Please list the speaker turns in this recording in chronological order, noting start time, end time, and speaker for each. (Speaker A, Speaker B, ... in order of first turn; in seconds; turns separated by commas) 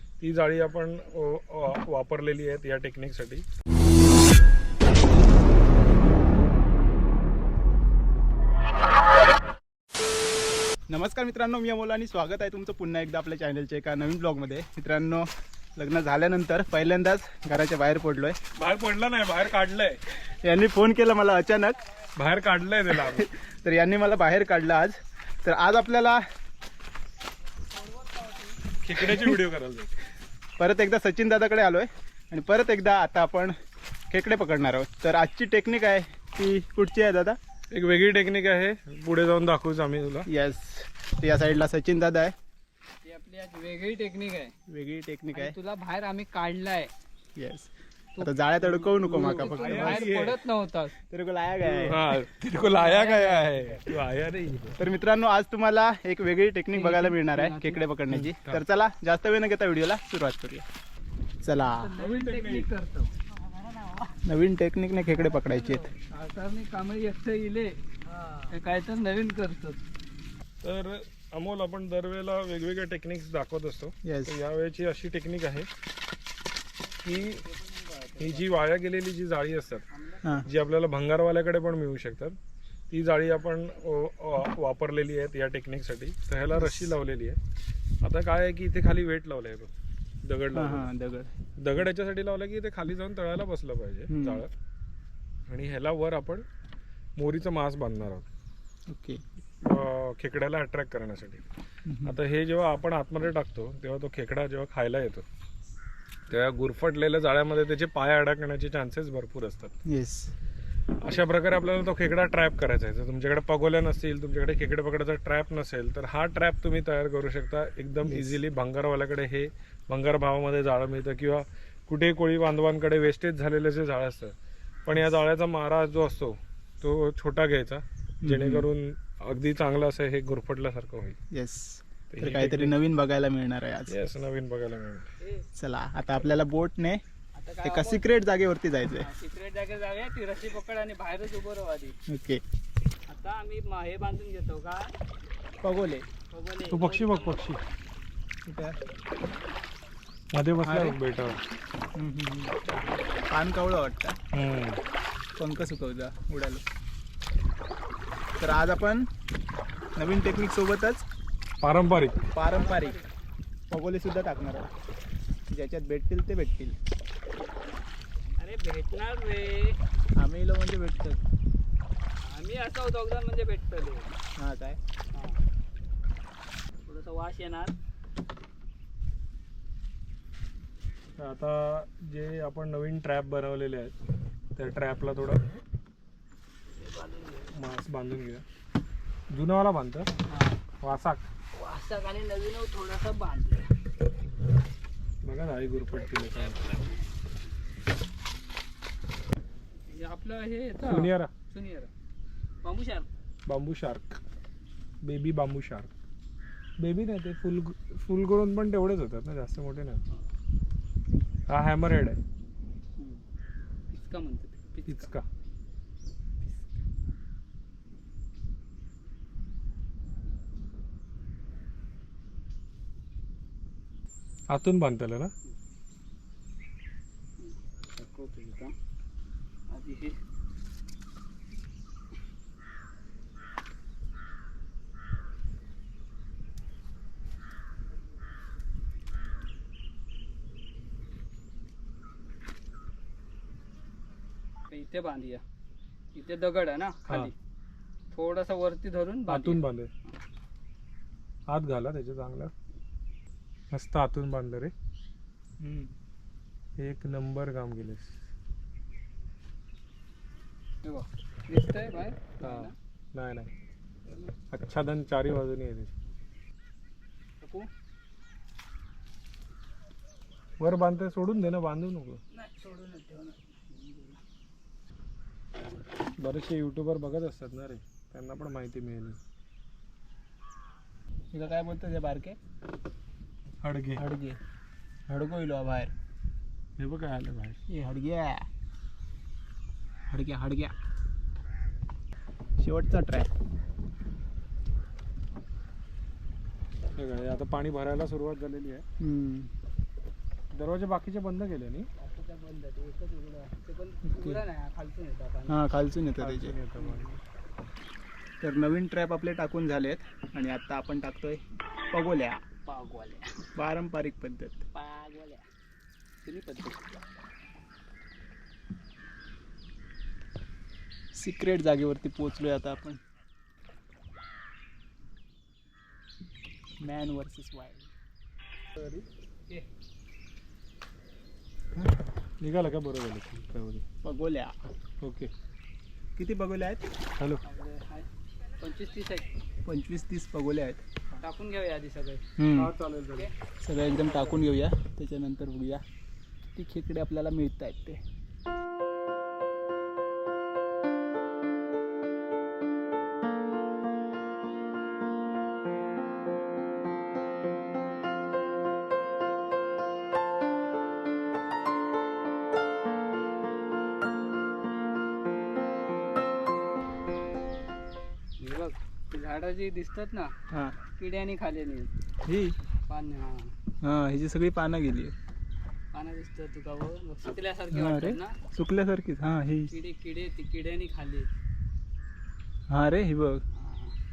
Speaker A: 0.2-3.5, Speaker B: 10.9-18.4, Speaker A: 18.6-20.0, Speaker B: 20.3-21.8, Speaker A: 22.2-23.3, Speaker B: 22.9-26.2, Speaker A: 28.7-30.0, Speaker B: 29.0-29.4, Speaker B: 30.6-33.6, Speaker B: 34.1-37.4, Speaker A: 37.7-40.3, Speaker B: 40.3-42.4, Speaker C: 43.0-44.5, Speaker B: 44.7-45.6, Speaker C: 45.3-46.9, Speaker B: 47.4-50.3, Speaker C: 48.2-51.0, Speaker A: 48.9-50.4, Speaker B: 51.0-52.2, Speaker A: 51.6-54.8, Speaker C: 52.5-53.7, Speaker B: 54.8-60.7, Speaker C: 56.7-57.8, Speaker A: 58.1-58.6, Speaker B: 61.4-62.0, Speaker C: 61.8-63.1, Speaker A: 62.0-62.7, Speaker B: 64.2-65.9, Speaker C: 65.3-67.8, Speaker C: 68.5-69.8, Speaker A: 70.6-75.7, Speaker B: 74.0-74.4, Speaker A: 77.0-77.4, Speaker C: 77.0-78.5, Speaker A: 78.2-79.8, Speaker C: 79.9-80.5, Speaker B: 80.2-80.5, Speaker A: 80.5-82.4, Speaker A: 82.9-87.4, Speaker B: 86.6-87.0, Speaker A: 88.0-89.7, Speaker A: 90.2-90.9, Speaker B: 90.5-91.3, Speaker A: 91.6-94.5, Speaker B: 94.1-94.4, Speaker A: 95.5-96.5, Speaker A: 97.2-98.3, Speaker B: 98.9-99.2, Speaker A: 99.6-101.4, Speaker B: 101.9-102.2, Speaker A: 102.0-105.2, Speaker A: 106.3-109.7, Speaker B: 109.9-110.3, Speaker A: 111.0-124.3, Speaker B: 118.0-118.4, Speaker A: 124.9-131.2, Speaker B: 128.2-128.7, Speaker B: 131.3-134.0, Speaker A: 132.1-132.8, Speaker A: 133.9-135.1, Speaker B: 135.6-137.0, Speaker C: 137.3-138.1, Speaker B: 137.6-139.1, Speaker C: 139.0-142.0, Speaker B: 142.1-142.4, Speaker C: 143.1-144.9, Speaker B: 145.6-146.1, Speaker C: 146.3-147.4, Speaker A: 146.7-147.6, Speaker B: 148.4-148.8, Speaker A: 150.3-151.4, Speaker B: 150.6-151.0, Speaker B: 151.9-152.6, Speaker B: 153.3-154.2, Speaker A: 154.3-154.8, Speaker B: 155.4-156.6, Speaker B: 158.4-159.1, Speaker B: 160.0-161.1, Speaker A: 161.6-162.2, Speaker C: 162.2-163.1, Speaker B: 162.3-163.0, Speaker B: 163.7-164.7, Speaker B: 165.5-166.8, Speaker C: 168.4-169.8, Speaker B: 170.2-171.2, Speaker C: 172.2-174.2, Speaker B: 174.4-174.8, Speaker C: 175.1-175.4, Speaker C: 176.9-177.8, Speaker A: 181.2-183.9, Speaker A: 184.6-185.4, Speaker C: 186.8-187.6, Speaker A: 187.5-188.4, Speaker A: 189.3-190.1, Speaker C: 190.3-190.6, Speaker A: 190.8-191.3, Speaker C: 191.5-193.7, Speaker A: 195.2-196.6, Speaker C: 196.0-197.1, Speaker C: 199.9-201.9, Speaker A: 200.8-201.3, Speaker C: 202.6-203.1, Speaker A: 203.5-204.2, Speaker A: 205.0-205.9, Speaker A: 206.8-210.0, Speaker A: 211.5-212.2, Speaker C: 213.0-213.2, Speaker C: 213.9-215.1, Speaker A: 214.9-215.2, Speaker C: 216.4-216.7, Speaker A: 224.5-225.3, Speaker C: 227.4-228.7, Speaker C: 229.7-230.2, Speaker C: 244.7-245.4, Speaker C: 246.2-247.3, Speaker C: 248.1-249.6, Speaker A: 249.3-249.9, Speaker A: 251.5-252.5, Speaker A: 253.7-254.7, Speaker B: 255.6-255.9, Speaker A: 256.8-258.1, Speaker C: 260.8-262.8, Speaker A: 262.4-263.5, Speaker C: 264.1-264.3, Speaker A: 264.5-265.9, Speaker C: 267.4-267.7, Speaker A: 270.6-272.2, Speaker C: 272.3-274.2, Speaker A: 276.2-279.2, Speaker B: 281.3-282.4, Speaker A: 283.6-284.0, Speaker B: 284.0-284.4, Speaker B: 285.1-285.9, Speaker A: 286.8-287.6, Speaker B: 287.7-288.5, Speaker B: 290.1-290.7, Speaker B: 292.6-293.3, Speaker A: 297.0-298.9, Speaker B: 299.0-299.5, Speaker A: 300.5-301.9, Speaker C: 302.0-305.6, Speaker B: 304.1-304.4, Speaker B: 305.5-306.6, Speaker A: 306.2-307.1, Speaker C: 306.8-307.2, Speaker B: 308.4-312.4, Speaker C: 312.7-313.4, Speaker B: 313.6-314.7, Speaker C: 314.7-315.4, Speaker C: 316.2-316.9, Speaker B: 321.1-323.0, Speaker B: 326.8-327.9, Speaker A: 328.8-329.1, Speaker A: 332.4-333.8, Speaker B: 334.0-334.6, Speaker A: 335.0-335.3, Speaker B: 336.2-336.9, Speaker C: 337.4-338.1, Speaker C: 338.6-339.3, Speaker B: 339.6-340.8, Speaker C: 341.2-342.2, Speaker B: 342.4-342.7, Speaker A: 342.6-343.3, Speaker B: 343.6-345.8, Speaker C: 343.9-344.4, Speaker B: 346.5-348.0, Speaker C: 368.4-370.3, Speaker B: 370.5-370.8, Speaker C: 371.0-371.9, Speaker B: 372.2-372.6, Speaker C: 372.9-373.5, Speaker B: 373.8-375.1, Speaker C: 375.9-378.4, Speaker B: 377.7-379.7, Speaker C: 379.7-381.3, Speaker B: 382.7-383.4, Speaker C: 383.5-383.9